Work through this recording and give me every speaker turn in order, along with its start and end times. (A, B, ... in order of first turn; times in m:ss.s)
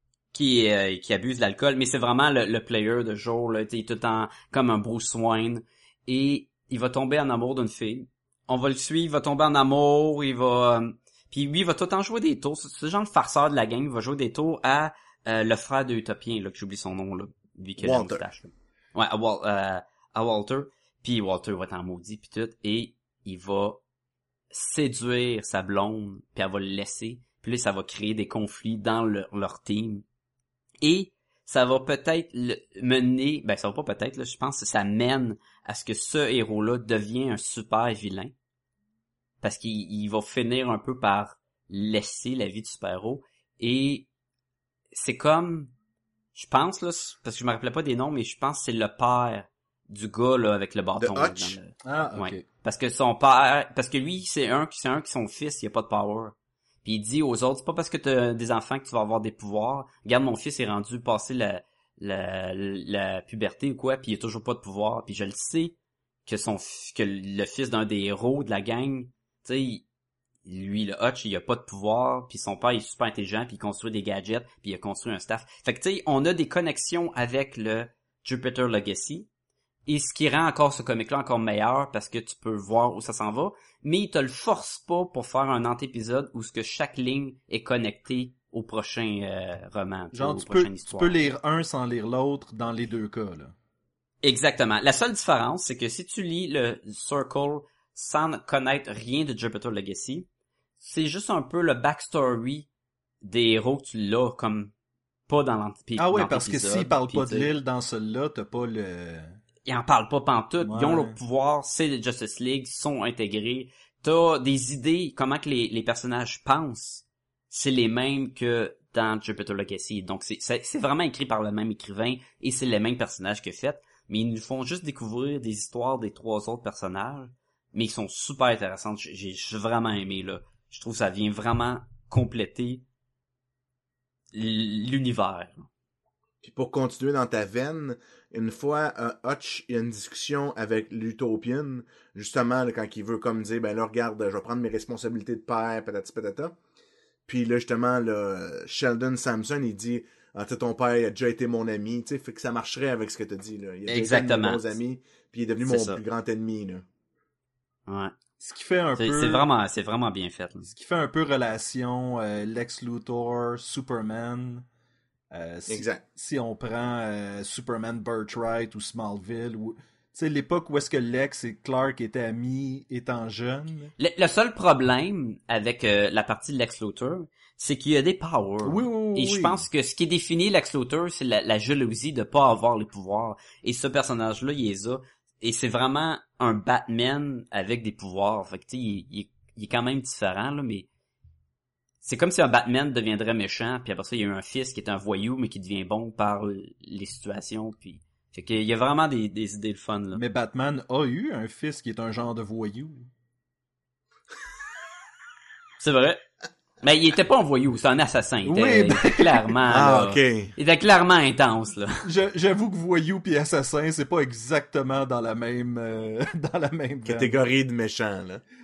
0:00.3-0:23.8 A
0:17.8-0:18.2 B
0:24.5-0:30.0 A
0:30.8-0:38.3 A
0:39.4-0:44.1 A
0:44.9-0:45.7 A
0:46.3-1:05.7 A
0:51.0-0:51.6 B
0:51.8-0:52.4 C
1:06.2-1:09.8 A
1:10.4-1:19.3 A
1:19.9-1:31.2 A
1:30.1-1:33.5 C
1:34.2-1:40.3 A
1:40.8-1:42.7 A
1:43.2-1:44.7 A
1:45.3-1:47.5 A
1:46.0-1:49.4 C
1:49.6-2:12.8 A
1:50.6-1:51.2 C
2:14.3-2:15.7 A
2:16.4-2:26.5 B
2:27.3-2:36.8 B
2:33.9-2:34.7 A
2:35.6-2:36.0 A
2:37.9-2:38.1 A
2:38.4-2:39.5 C
2:39.0-2:40.7 A
2:40.7-2:44.6 C
2:45.3-2:53.9 C
2:45.7-2:46.0 B
2:54.0-3:10.9 A
2:58.6-2:59.6 C
3:12.0-3:20.2 A
3:20.1-3:23.1 C
3:25.8-3:26.2 A
3:26.8-3:32.0 A
3:28.4-3:29.5 C
3:29.7-3:30.5 B
3:32.0-3:37.3 C
3:37.0-3:38.4 B